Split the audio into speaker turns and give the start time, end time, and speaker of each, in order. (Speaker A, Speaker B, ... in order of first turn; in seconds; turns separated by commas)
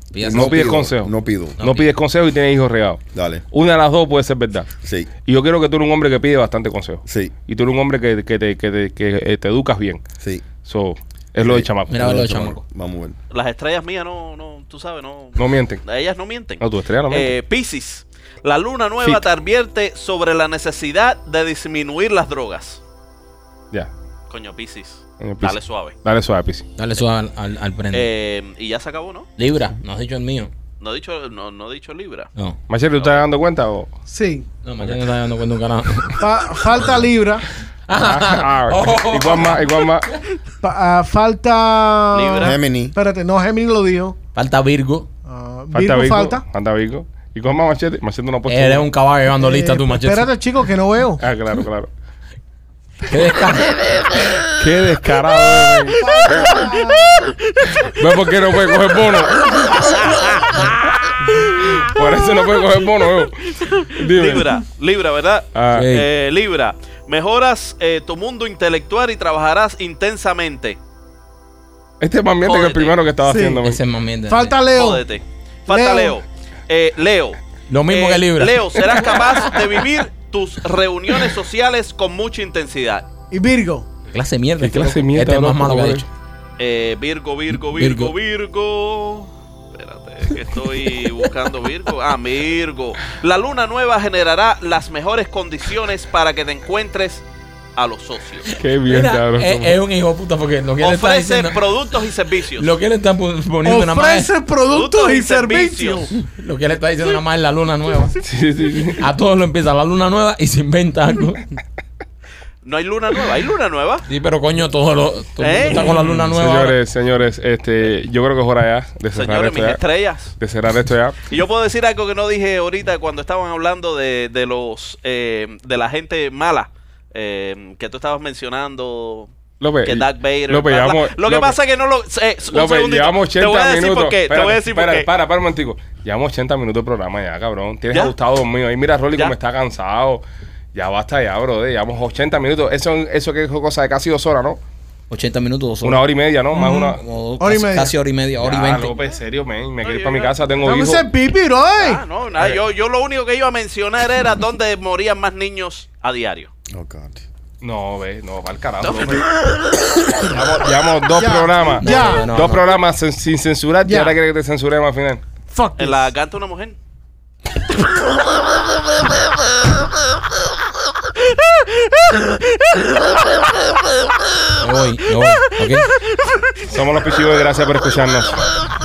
Speaker A: 0.1-0.9, Speaker B: 0.2-1.6, Speaker C: 0.3-4.7, Speaker A: 1.6-1.9, Speaker B: 3.1-3.4, Speaker B: 4.8-5.1, Speaker C: 5.2-10.0, Speaker B: 7.1-7.3, Speaker B: 10.2-10.5, Speaker C: 10.6-12.1, Speaker B: 11.4-13.2, Speaker A: 11.9-12.6, Speaker D: 13.3-22.8, Speaker C: 15.4-15.8, Speaker C: 16.6-17.4, Speaker D: 24.3-26.0, Speaker C: 25.2-26.7, Speaker A: 26.8-28.1, Speaker D: 27.9-29.3, Speaker A: 29.4-30.5, Speaker D: 30.8-32.3, Speaker C: 32.7-33.9, Speaker D: 33.0-33.3, Speaker E: 34.1-34.5, Speaker A: 34.6-36.2, Speaker E: 36.2-37.5, Speaker A: 37.9-39.9, Speaker C: 38.0-40.1, Speaker E: 40.6-44.2, Speaker D: 42.1-42.6, Speaker B: 42.4-43.0, Speaker A: 44.4-45.1, Speaker E: 45.3-46.4, Speaker C: 45.7-48.9, Speaker A: 48.5-50.3, Speaker E: 49.4-51.2, Speaker C: 51.2-51.9, Speaker A: 53.1-53.9, Speaker C: 54.5-56.5, Speaker E: 56.0-57.3, Speaker C: 57.7-60.1, Speaker C: 61.6-64.6, Speaker D: 63.7-70.8, Speaker C: 65.5-65.9, Speaker A: 65.7-66.1, Speaker C: 72.0-73.8, Speaker D: 72.4-73.0, Speaker E: 73.2-73.6, Speaker A: 73.6-74.5, Speaker E: 74.3-75.1, Speaker D: 74.7-83.1, Speaker E: 75.7-76.2, Speaker A: 77.7-79.2, Speaker E: 83.3-83.9, Speaker A: 84.1-86.1, Speaker C: 84.6-86.0, Speaker D: 86.6-97.2, Speaker A: 87.5-88.1, Speaker D: 97.8-98.5, Speaker C: 98.5-99.8, Speaker A: 98.8-101.6, Speaker D: 100.8-102.7, Speaker A: 102.6-104.3, Speaker E: 103.7-106.1, Speaker D: 104.7-106.1, Speaker A: 106.2-108.2, Speaker C: 108.2-109.0, Speaker A: 109.0-111.5, Speaker D: 112.6-114.1, Speaker A: 114.1-116.8, Speaker D: 115.4-116.0, Speaker C: 115.9-119.8, Speaker D: 119.1-120.3, Speaker C: 120.4-121.2, Speaker D: 121.2-129.3, Speaker C: 129.6-131.6, Speaker D: 129.8-135.1, Speaker C: 132.5-144.6, Speaker A: 145.1-146.1, Speaker C: 145.8-147.0, Speaker E: 146.6-147.9, Speaker A: 146.7-148.9, Speaker C: 148.4-151.1, Speaker D: 149.8-150.6, Speaker E: 150.6-152.0, Speaker D: 151.8-156.5, Speaker C: 152.4-152.6, Speaker B: 156.7-157.2, Speaker C: 157.6-159.3, Speaker D: 158.8-159.3, Speaker C: 160.2-165.2, Speaker E: 161.2-162.3, Speaker A: 161.8-162.7, Speaker E: 163.9-164.2, Speaker E: 165.5-166.1, Speaker D: 165.8-166.8, Speaker A: 174.6-175.9, Speaker C: 176.7-178.4